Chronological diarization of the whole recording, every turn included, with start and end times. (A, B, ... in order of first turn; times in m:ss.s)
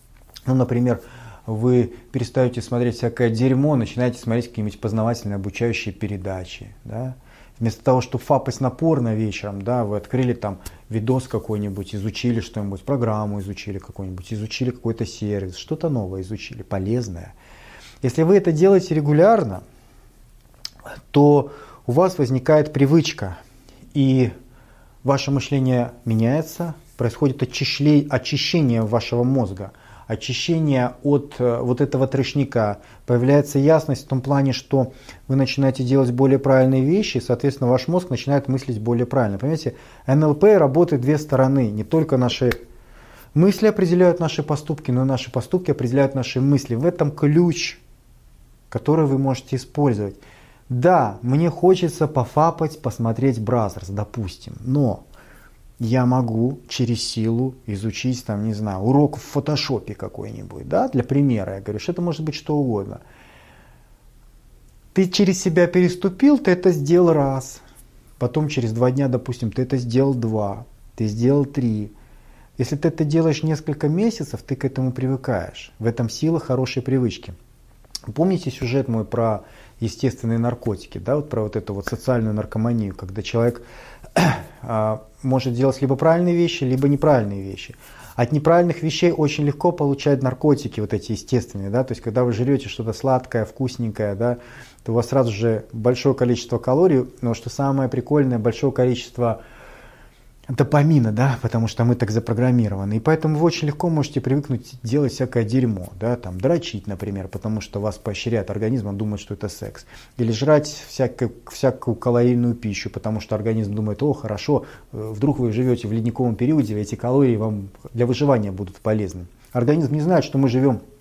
0:00.5-0:17.3 A
0:18.0-0:19.6 A
0:21.1-0:23.4 A
0:23.9-0:24.3 A
0:25.0-0:42.6 A
0:43.3-0:47.8 A
0:48.7-0:50.2 A
0:50.7-0:55.0 A
0:55.8-1:03.0 A
1:04.9-1:07.6 A
1:08.2-1:11.9 A
1:12.6-1:17.4 A
1:18.1-1:23.6 A
1:24.2-1:39.4 A
1:40.5-2:00.8 A